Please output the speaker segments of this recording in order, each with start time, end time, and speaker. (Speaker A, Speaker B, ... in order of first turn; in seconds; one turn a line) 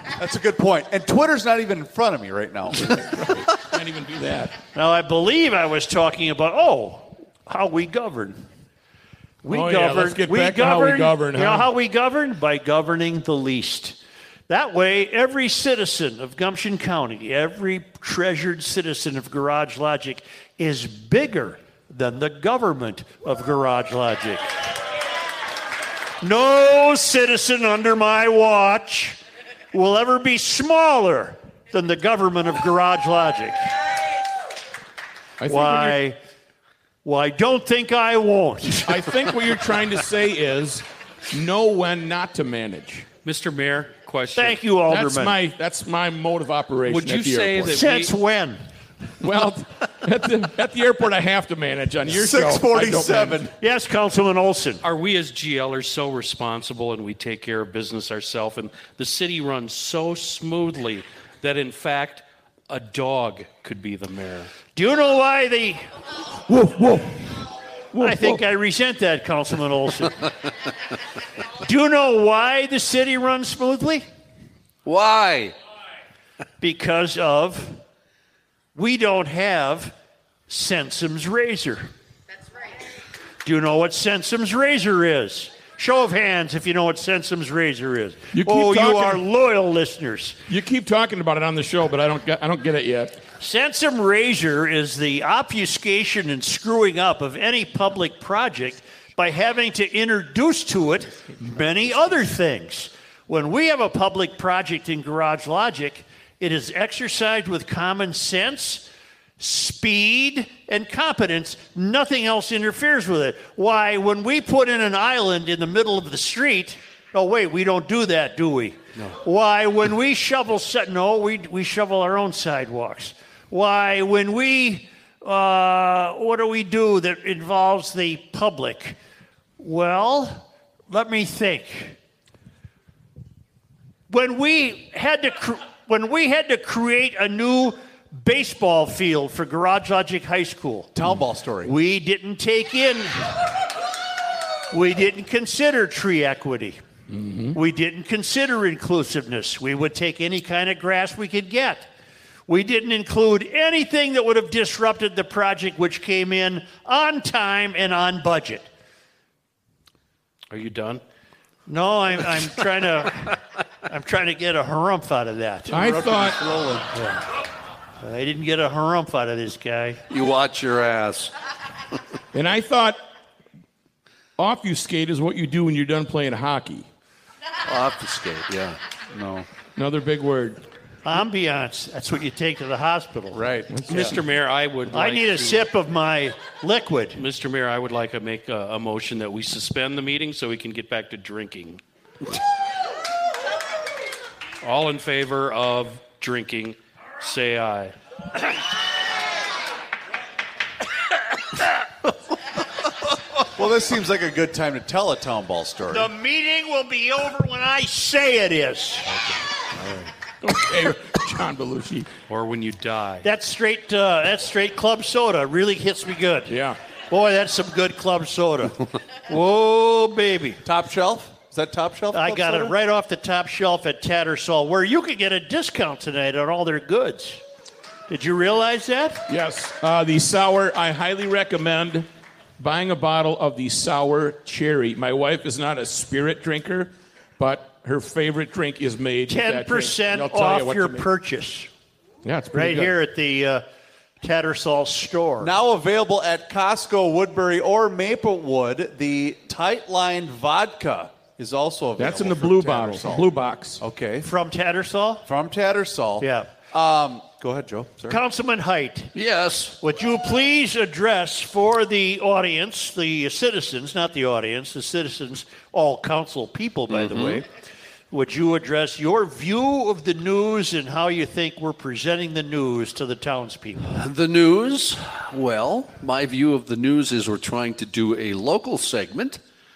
Speaker A: 0.2-3.3
Speaker B: 2.9-4.5
Speaker C: 4.8-8.4
Speaker C: 9.4-14.0
Speaker B: 9.5-11.7
Speaker C: 14.5-24.5
Speaker C: 26.2-29.2
Speaker C: 29.7-33.7
Speaker B: 35.4-36.0
Speaker C: 35.5-36.2
Speaker C: 37.0-39.2
Speaker B: 38.9-43.1
Speaker D: 43.2-44.6
Speaker C: 44.4-45.4
Speaker B: 44.9-47.8
Speaker D: 46.9-48.1
Speaker C: 47.7-48.6
Speaker B: 49.2-53.5
Speaker A: 52.1-53.5
Speaker C: 53.6-54.8
Speaker D: 54.8-64.5
Speaker C: 64.8-65.8
Speaker B: 66.5-67.3
Speaker B: 67.9-68.4
Speaker C: 68.0-70.3
Speaker C: 71.6-74.1
Speaker E: 74.8-75.5
Speaker C: 76.6-77.8
Speaker C: 78.8-79.9
Speaker C: 80.5-81.9
Speaker C: 83.4-90.4
Speaker B: 88.3-89.2
Speaker B: 90.5-93.2
Speaker C: 93.4-108.9
Speaker C: 109.4-129.0
Speaker C: 129.6-132.0
Speaker C: 134.1-140.9
Speaker A: 140.9-141.7
Speaker C: 141.6-143.5
Speaker C: 144.7-146.8
Speaker B: 147.1-147.6
Speaker C: 147.5-151.9
Speaker C: 152.5-158.7
Speaker D: 160.5-161.0
Speaker C: 161.7-165.8
Speaker A: 165.7-166.9
Speaker B: 165.7-166.4
Speaker C: 166.9-167.3
Speaker C: 168.0-170.0
Speaker E: 170.1-171.3
Speaker B: 172.3-173.0
Speaker B: 174.4-176.9
Speaker E: 177.7-178.8
Speaker A: 179.1-179.5
Speaker B: 179.8-180.6
Speaker C: 181.1-183.4
Speaker A: 183.3-184.2
Speaker B: 183.7-184.2
Speaker D: 183.9-185.7
Speaker C: 184.9-187.2
Speaker D: 187.2-191.8
Speaker D: 194.6-197.9
Speaker A: 203.6-206.1
Speaker C: 205.9-209.2
Speaker B: 210.4-212.1
Speaker D: 212.3-213.3
Speaker C: 213.2-216.5
Speaker B: 216.5-216.8
Speaker C: 217.1-220.6
Speaker A: 220.6-222.8
Speaker C: 222.1-227.4
Speaker C: 228.1-229.2
Speaker B: 229.3-232.1
Speaker B: 232.6-241.1
Speaker C: 239.3-241.7
Speaker B: 242.2-242.9
Speaker C: 242.5-243.6
Speaker C: 244.2-245.5
Speaker A: 245.4-254.3
Speaker B: 252.0-253.8
Speaker C: 254.2-255.2
Speaker A: 255.2-258.2
Speaker C: 256.2-256.5
Speaker C: 258.1-259.1
Speaker E: 259.1-259.8
Speaker C: 259.8-267.5
Speaker E: 266.9-267.4
Speaker C: 268.1-274.0
Speaker E: 273.9-279.4